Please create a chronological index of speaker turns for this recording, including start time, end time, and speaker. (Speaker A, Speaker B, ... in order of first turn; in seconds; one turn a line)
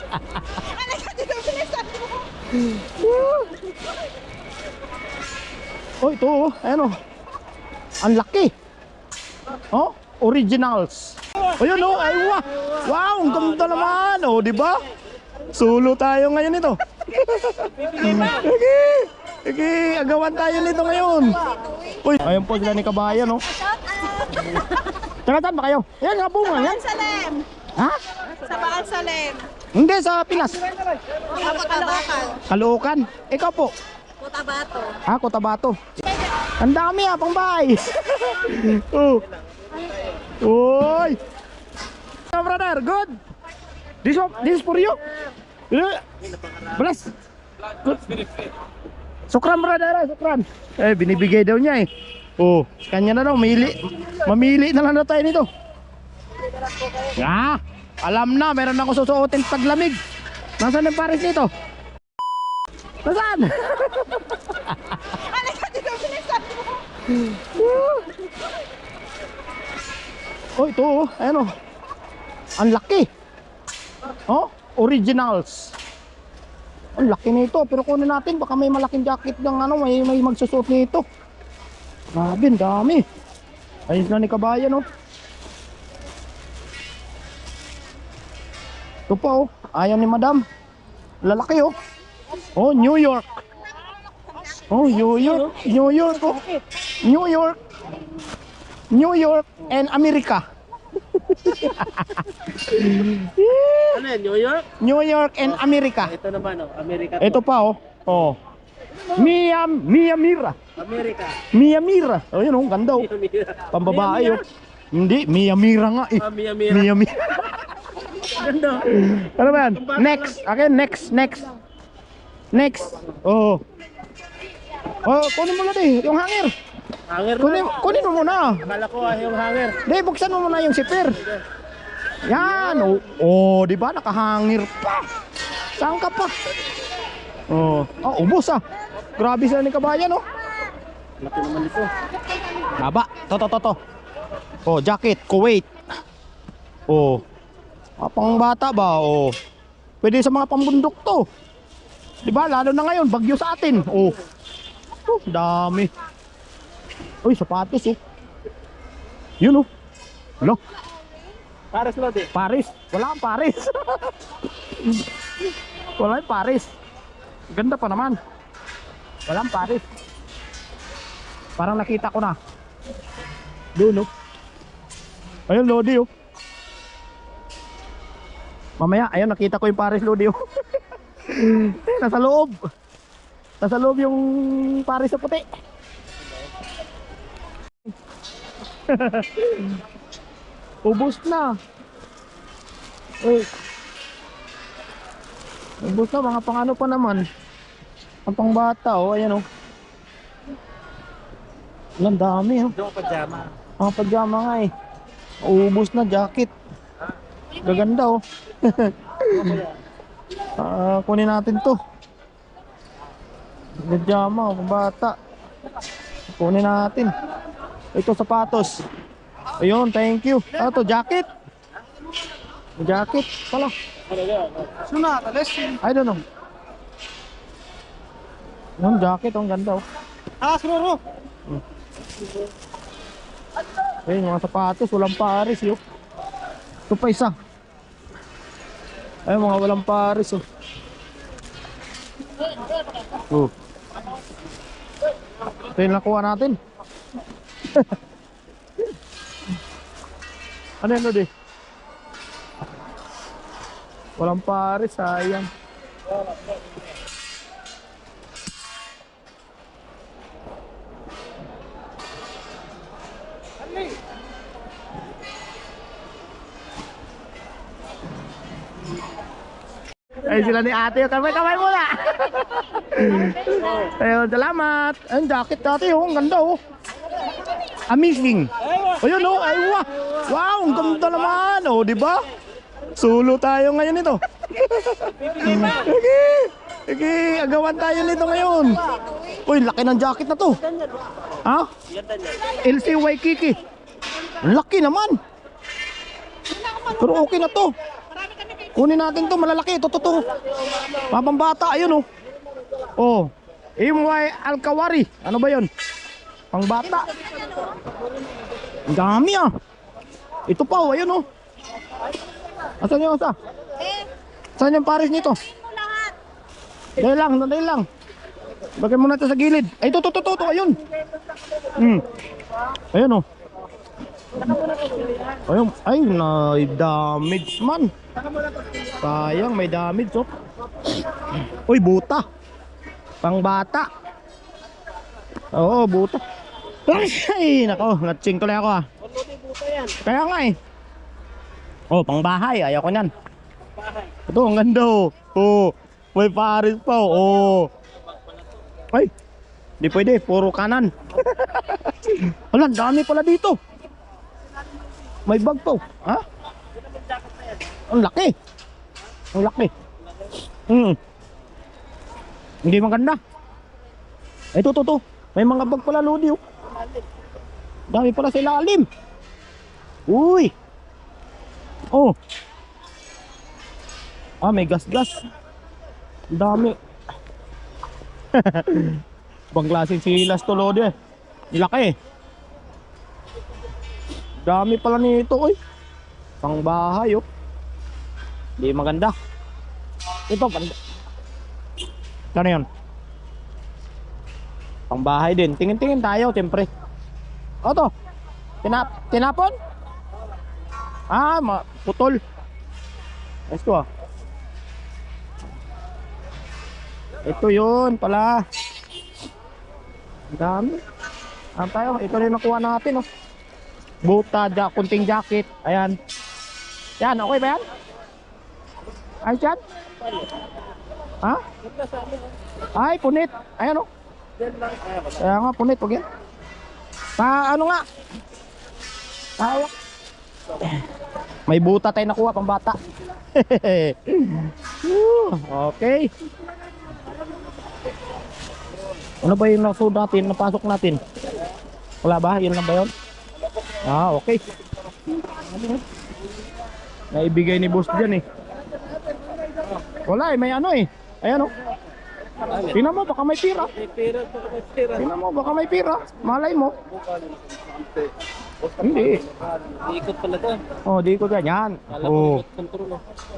Speaker A: 0.6-1.5
Speaker B: 0.8-2.1
Speaker C: 2.7-3.6
Speaker C: 6.0-7.0
Speaker C: 8.0-8.5
Speaker C: 9.7-14.8
Speaker C: 15.5-21.5
Speaker A: 17.7-18.0
Speaker C: 22.0-23.4
Speaker B: 23.5-24.5
Speaker C: 25.2-26.8
Speaker A: 26.9-27.4
Speaker B: 26.9-27.2
Speaker A: 28.3-29.4
Speaker C: 29.7-30.6
Speaker B: 31.3-32.4
Speaker C: 32.5-33.7
Speaker B: 34.2-35.0
Speaker C: 35.0-35.8
Speaker C: 36.6-39.2
Speaker C: 40.4-41.2
Speaker C: 42.3-43.2
Speaker C: 44.0-45.0
Speaker C: 45.7-46.0
Speaker C: 46.6-47.1
Speaker C: 47.8-48.3
Speaker C: 49.3-55.5
Speaker C: 57.0-60.0
Speaker C: 60.6-61.5
Speaker C: 63.0-64.7
Speaker A: 65.2-66.7
Speaker B: 65.7-66.5
Speaker C: 67.1-68.1
Speaker C: 70.6-71.5
Speaker C: 72.6-73.1
Speaker C: 74.3-75.7
Speaker C: 77.0-81.0
Speaker C: 82.2-83.0
Speaker C: 83.9-84.8
Speaker C: 89.1-90.4
Speaker C: 91.2-91.7
Speaker C: 92.5-93.2
Speaker C: 94.6-96.5
Speaker C: 97.0-97.6
Speaker C: 98.9-100.4
Speaker C: 101.1-104.0
Speaker A: 103.9-104.7
Speaker C: 104.8-106.2
Speaker A: 106.2-107.3
Speaker C: 107.2-108.4
Speaker C: 109.1-110.5
Speaker A: 110.8-111.4
Speaker C: 111.5-113.1
Speaker A: 113.1-114.4
Speaker C: 113.7-117.7
Speaker A: 116.2-116.8
Speaker A: 118.3-118.9
Speaker C: 118.7-121.5
Speaker C: 122.5-123.6
Speaker C: 125.0-126.5
Speaker A: 127.1-127.8
Speaker C: 127.4-128.7
Speaker A: 128.7-129.8
Speaker C: 129.8-131.2
Speaker C: 132.2-135.0
Speaker C: 135.8-136.3
Speaker C: 137.5-138.6
Speaker C: 139.2-140.2
Speaker A: 141.2-141.9
Speaker C: 142.8-143.8
Speaker C: 144.7-145.7
Speaker C: 146.9-147.2
Speaker C: 148.0-149.3
Speaker C: 150.0-151.2
Speaker C: 152.2-154.2
Speaker C: 155.0-155.9
Speaker C: 157.2-158.0
Speaker C: 159.4-159.7
Speaker A: 161.7-162.3
Speaker C: 162.3-164.1
Speaker C: 166.0-166.7
Speaker C: 167.5-168.2
Speaker C: 169.3-169.8
Speaker C: 171.6-172.3
Speaker C: 173.8-174.1
Speaker C: 175.5-176.1
Speaker C: 178.8-180.4
Speaker C: 181.2-182.6
Speaker C: 183.6-185.4
Speaker C: 188.9-189.7
Speaker C: 190.8-191.5
Speaker C: 193.2-193.5
Speaker C: 195.8-197.2
Speaker C: 198.2-199.4
Speaker C: 202.0-202.7
Speaker A: 203.0-203.4
Speaker C: 203.8-204.7
Speaker C: 205.4-206.5
Speaker C: 207.6-209.6
Speaker C: 210.6-211.8
Speaker C: 213.8-215.1
Speaker C: 216.3-217.1
Speaker C: 217.9-218.8
Speaker C: 219.6-221.2
Speaker C: 222.8-223.7
Speaker A: 224.6-225.4
Speaker C: 225.6-226.2
Speaker C: 228.8-229.8
Speaker A: 230.4-231.0
Speaker C: 234.1-235.8
Speaker C: 236.9-237.3
Speaker C: 239.3-240.4
Speaker C: 243.1-243.5
Speaker C: 245.7-246.6
Speaker C: 250.8-251.3
Speaker C: 254.2-255.5
Speaker C: 270.2-276.6
Speaker C: 277.9-282.2
Speaker C: 282.9-288.8
Speaker C: 289.4-290.6
Speaker A: 292.0-292.4
Speaker C: 292.5-293.6
Speaker C: 294.4-295.1
Speaker C: 296.9-297.7
Speaker C: 298.7-300.3
Speaker C: 301.0-302.0
Speaker C: 303.0-305.7
Speaker C: 306.5-307.1
Speaker B: 307.0-307.8
Speaker C: 308.9-309.5
Speaker C: 310.5-311.2
Speaker C: 312.8-313.4
Speaker B: 313.8-314.1
Speaker C: 314.6-315.4
Speaker B: 315.4-316.1
Speaker C: 317.0-317.9
Speaker C: 318.8-320.8
Speaker C: 321.7-322.0
Speaker C: 322.9-323.2
Speaker C: 325.4-327.9
Speaker C: 328.9-330.3
Speaker C: 331.4-332.2
Speaker C: 333.2-333.9
Speaker C: 335.5-336.2
Speaker C: 336.9-338.8
Speaker A: 339.4-339.9
Speaker C: 340.0-340.5
Speaker C: 341.9-343.1
Speaker C: 344.3-347.7
Speaker C: 349.8-353.6
Speaker C: 355.2-356.2
Speaker C: 357.9-358.3
Speaker C: 359.3-359.7
Speaker C: 360.7-361.0
Speaker C: 362.6-363.2
Speaker C: 364.5-366.4
Speaker C: 367.9-368.9
Speaker C: 370.1-370.5
Speaker C: 374.4-375.2
Speaker C: 376.3-376.8
Speaker C: 378.3-379.0
Speaker C: 379.5-380.9
Speaker C: 381.5-381.9
Speaker C: 384.4-385.5
Speaker C: 386.4-387.2
Speaker C: 388.6-389.1
Speaker C: 390.3-390.7
Speaker C: 392.3-392.6
Speaker C: 394.9-396.7
Speaker C: 397.6-397.9
Speaker C: 398.6-399.5
Speaker C: 401.1-402.2
Speaker C: 403.5-403.9
Speaker C: 407.2-408.4
Speaker C: 410.3-410.8
Speaker C: 411.6-413.1
Speaker C: 414.0-416.0
Speaker C: 417.0-417.6
Speaker C: 419.2-419.6
Speaker C: 422.7-423.9
Speaker C: 425.1-426.0
Speaker C: 427.2-427.8
Speaker C: 429.4-429.7
Speaker C: 431.5-432.8
Speaker C: 433.3-436.1
Speaker C: 439.2-441.0
Speaker C: 442.0-442.9
Speaker C: 443.8-444.4
Speaker C: 447.1-448.2
Speaker C: 450.0-451.5
Speaker C: 452.6-453.7
Speaker A: 453.8-455.0
Speaker C: 454.9-456.7
Speaker C: 458.8-459.3
Speaker A: 459.7-460.7
Speaker C: 460.8-462.4
Speaker A: 462.0-463.0